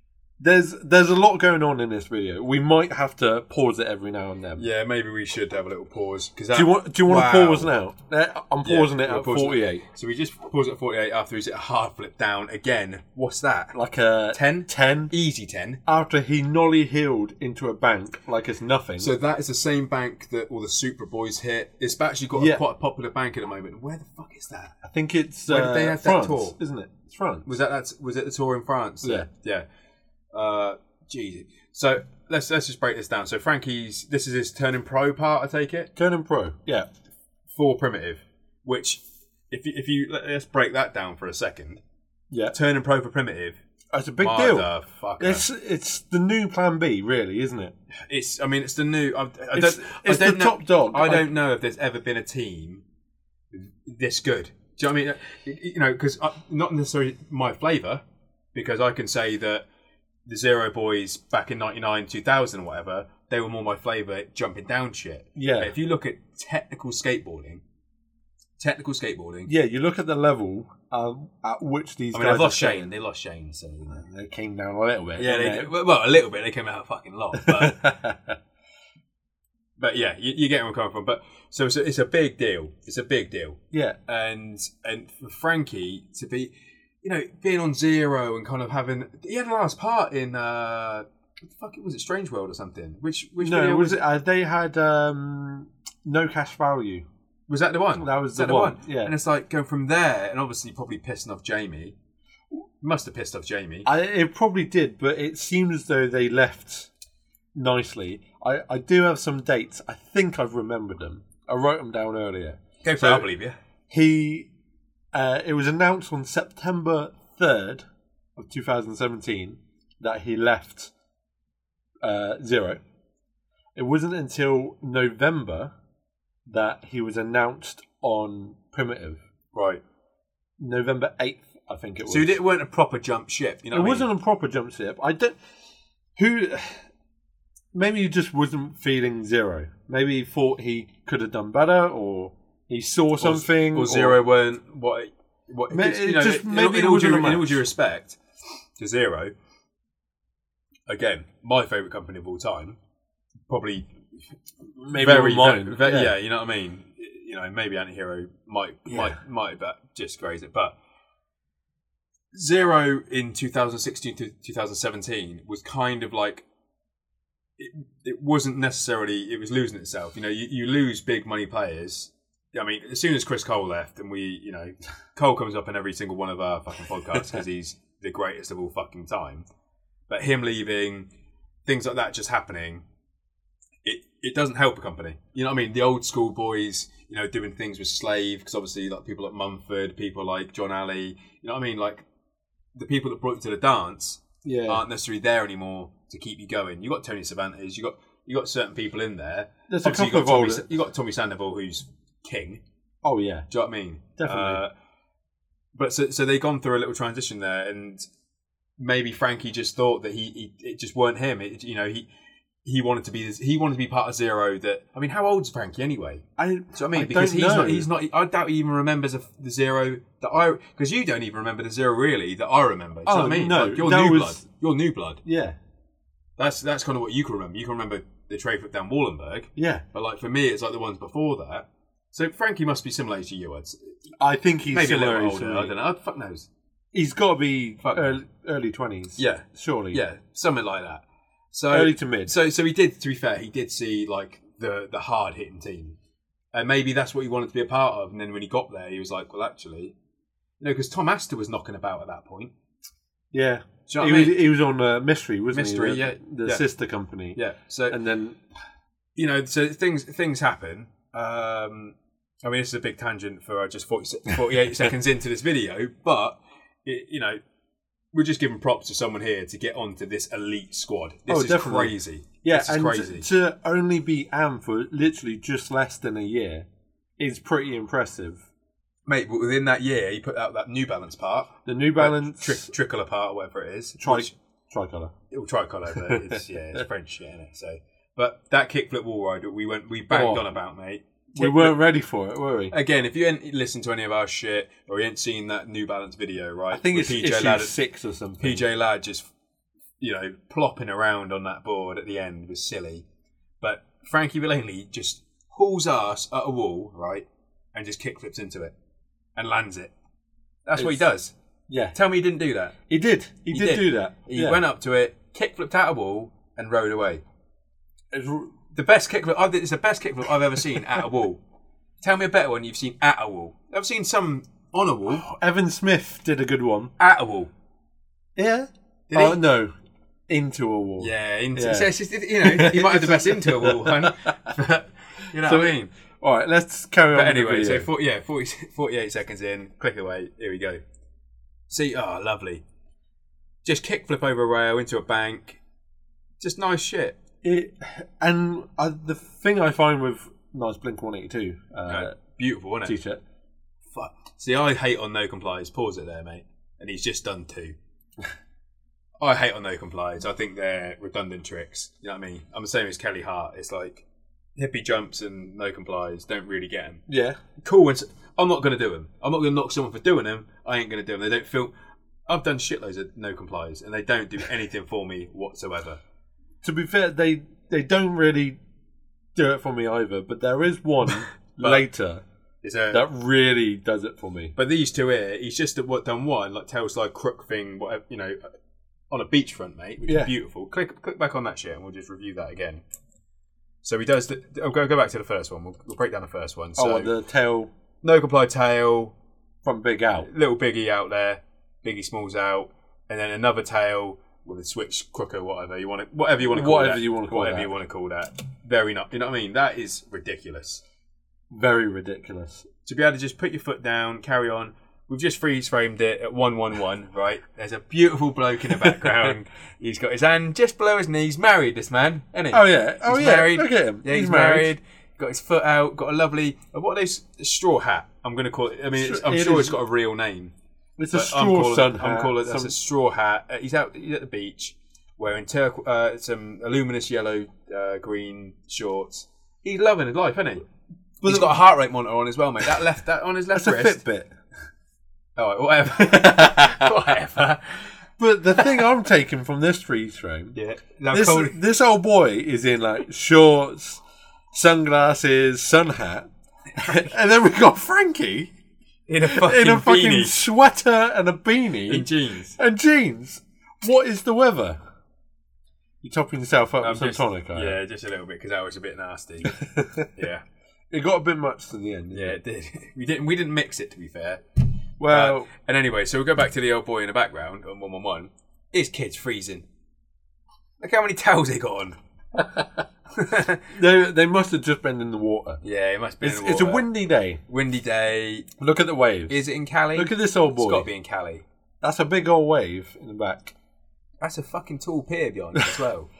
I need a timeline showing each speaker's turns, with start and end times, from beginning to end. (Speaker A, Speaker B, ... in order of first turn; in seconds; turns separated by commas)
Speaker A: 0.4-4.6, Speaker B: 4.6-7.7, Speaker A: 6.5-9.8, Speaker B: 8.6-13.8, Speaker A: 13.7-15.1, Speaker B: 14.3-15.8, Speaker A: 15.8-19.1, Speaker B: 19.0-24.7, Speaker A: 22.3-22.6, Speaker A: 24.8-27.5, Speaker B: 25.5-26.6, Speaker B: 27.4-29.6, Speaker A: 29.0-29.3, Speaker B: 30.3-35.9, Speaker A: 36.0-36.9, Speaker B: 37.5-41.8, Speaker A: 42.3-42.5, Speaker B: 42.5-43.6, Speaker A: 43.9-44.7, Speaker B: 44.2-45.5, Speaker A: 45.2-47.7, Speaker B: 48.1-52.8, Speaker A: 49.5-51.3, Speaker B: 53.5-58.0, Speaker B: 58.5-59.6, Speaker B: 60.3-67.6, Speaker A: 65.3-65.7, Speaker B: 68.6-69.5, Speaker A: 69.5-72.9, Speaker B: 72.1-74.0, Speaker A: 73.9-75.7, Speaker B: 75.2-77.8, Speaker A: 77.3-78.4, Speaker B: 79.8-94.0, Speaker A: 83.7-84.0, Speaker A: 93.4-97.0, Speaker B: 97.5-102.0, Speaker A: 98.0-99.1, Speaker B: 102.8-103.9, Speaker A: 103.8-106.9, Speaker A: 107.5-113.2, Speaker B: 112.8-113.6, Speaker A: 113.9-114.5, Speaker A: 115.1-117.8, Speaker A: 118.3-120.9, Speaker A: 122.0-122.8, Speaker A: 123.8-125.7, Speaker A: 126.5-129.2, Speaker B: 129.5-129.8, Speaker A: 130.6-132.4, Speaker B: 132.1-134.1, Speaker A: 133.7-135.4, Speaker A: 136.2-136.8, Speaker A: 137.7-144.2, Speaker B: 143.2-148.2, Speaker A: 145.7-147.6, Speaker B: 148.8-149.3, Speaker B: 150.9-152.8, Speaker B: 153.5-153.9, Speaker A: 154.8-156.1, Speaker B: 154.9-160.8, Speaker A: 158.9-159.2, Speaker B: 162.3-166.4, Speaker B: 167.6-179.4, Speaker B: 180.1-181.1, Speaker B: 181.7-182.8, Speaker B: 183.8-192.0, Speaker B: 192.7-202.6, Speaker A: 194.4-194.8, Speaker A: 199.7-200.7, Speaker A: 203.0-203.5, Speaker B: 203.5-204.7, Speaker A: 204.2-204.6, Speaker B: 205.8-208.1, Speaker B: 208.8-212.1, Speaker B: 212.6-225.2, Speaker A: 216.4-217.9, Speaker A: 223.1-224.4, Speaker A: 225.2-225.6, Speaker B: 226.4-233.9, Speaker A: 229.6-229.8, Speaker A: 234.2-235.7, Speaker B: 234.7-236.5, Speaker A: 236.9-240.0, Speaker B: 237.8-238.2, Speaker B: 239.2-246.0, Speaker A: 241.7-242.3, Speaker B: 246.5-249.9, Speaker B: 250.6-252.5, Speaker A: 253.3-257.4, Speaker B: 253.9-254.4, Speaker B: 255.5-256.6, Speaker B: 257.3-258.0, Speaker A: 257.9-258.4, Speaker B: 259.1-267.4, Speaker B: 268.1-273.3, Speaker A: 271.3-276.6, Speaker A: 277.2-278.4, Speaker B: 279.1-284.3, Speaker A: 281.6-282.7, Speaker A: 284.0-285.1, Speaker B: 285.3-291.8, Speaker A: 290.1-290.4, Speaker A: 291.4-292.7, Speaker B: 292.7-297.7, Speaker A: 296.7-298.6, Speaker B: 298.4-299.3, Speaker B: 300.0-303.0, Speaker B: 303.6-308.7, Speaker B: 309.4-309.9, Speaker B: 310.6-311.3, Speaker A: 310.8-311.1, Speaker A: 311.7-311.9, Speaker B: 311.9-312.8, Speaker A: 312.9-314.6, Speaker B: 313.5-317.2, Speaker A: 318.1-318.5, Speaker B: 318.7-321.4, Speaker B: 322.0-325.3, Speaker A: 325.2-326.9, Speaker B: 327.0-327.5, Speaker A: 328.4-329.7, Speaker B: 329.1-329.4, Speaker A: 330.3-334.5, Speaker B: 331.0-335.9, Speaker A: 335.4-337.9, Speaker B: 337.1-340.8, Speaker B: 341.7-342.6, Speaker B: 343.6-345.6, Speaker B: 346.4-347.2, Speaker A: 347.4-352.1, Speaker B: 351.9-352.9, Speaker A: 352.9-353.2, Speaker B: 353.9-357.8, Speaker B: 359.2-364.0, Speaker B: 364.6-367.0, Speaker A: 367.1-367.4, Speaker B: 367.6-371.7, Speaker B: 372.3-376.0, Speaker A: 376.6-378.6, Speaker A: 379.3-382.2, Speaker B: 381.6-381.8, Speaker B: 382.6-383.0, Speaker A: 382.9-384.5, Speaker B: 384.6-388.4, Speaker B: 389.1-392.8, Speaker A: 390.0-390.3, Speaker B: 393.8-397.1, Speaker A: 396.8-397.7, Speaker B: 398.0-399.1, Speaker A: 399.6-400.3, Speaker B: 400.2-410.8, Speaker A: 406.5-407.7, Speaker A: 411.5-412.6, Speaker B: 412.8-430.5, Speaker A: 422.5-424.7, Speaker A: 428.9-429.8, Speaker A: 431.0-432.7, Speaker B: 431.1-440.6, Speaker A: 441.2-441.6, Speaker B: 441.2-444.0, Speaker A: 443.5-444.3, Speaker B: 445.4-447.9, Speaker A: 446.0-446.9, Speaker A: 448.2-450.6, Speaker B: 450.5-451.6, Speaker A: 451.1-458.5, Speaker B: 459.1-460.4, Speaker A: 459.2-464.8, Speaker B: 461.9-462.6, Speaker A: 466.0-467.8, Speaker B: 466.8-469.6, Speaker A: 469.5-470.1, Speaker B: 470.1-470.4, Speaker A: 470.9-472.4, Speaker B: 472.1-474.4, Speaker A: 475.0-475.5, Speaker B: 475.1-479.6, Speaker B: 480.8-482.0, Speaker A: 482.4-482.8, Speaker B: 483.1-483.6, Speaker A: 483.7-485.6, Speaker B: 485.6-486.9, Speaker A: 486.2-487.4, Speaker B: 487.5-488.5, Speaker A: 488.6-489.4, Speaker B: 489.3-491.4, Speaker A: 489.9-490.9, Speaker A: 491.8-493.5, Speaker B: 494.2-496.1